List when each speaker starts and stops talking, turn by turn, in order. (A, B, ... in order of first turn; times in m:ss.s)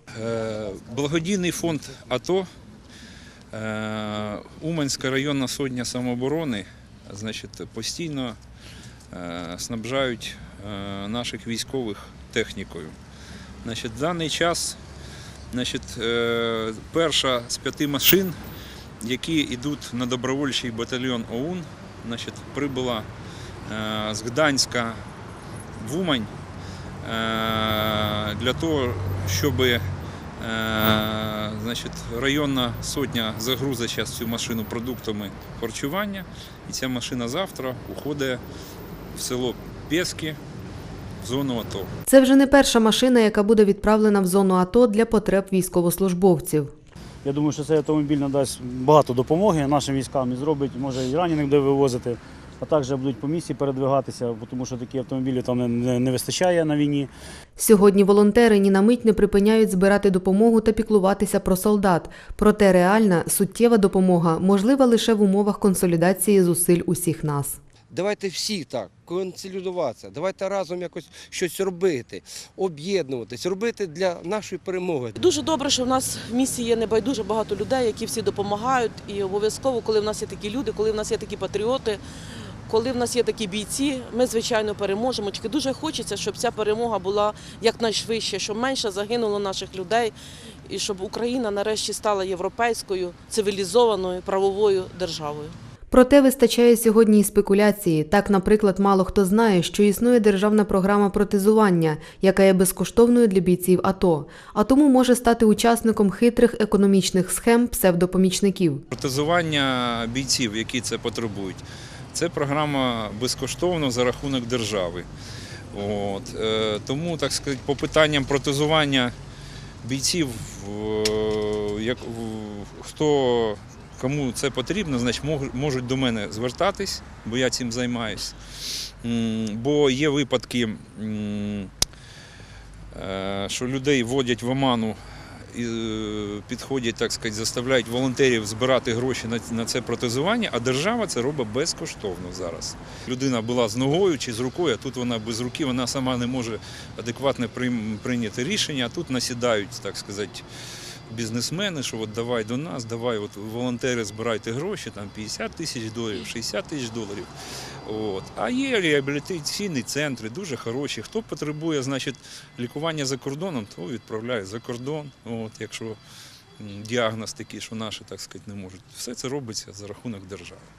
0:00.2-0:02.4 A
0:03.5-0:08.4 A
0:09.1-0:12.9 A
0:13.6-0:14.8 A
0:15.5-0:18.4 A
0:19.0-0:23.1 A
0:23.6-0:25.0 A
0:25.8-0:26.3 A
0:27.0-0:29.8 A
0:30.4-0:38.4 A
0:39.2-0:40.4 A
0:41.2-0:41.9 A
0:42.1-0:46.7 B
0:47.2-0:57.1 C
0:57.6-1:07.6 B
1:07.9-1:15.2 D
1:15.2-1:22.0 E
1:22.7-1:30.1 E
1:30.7-1:35.5 E
1:35.9-1:48.8 B
1:48.9-1:55.1 A
1:55.7-1:59.1 A
1:59.8-2:08.4 A
2:09.0-2:11.7 A
2:12.9-2:15.0 A
2:15.5-2:30.4 A
2:31.1-2:37.3 A
2:37.8-2:46.0 A
2:46.6-2:50.7 A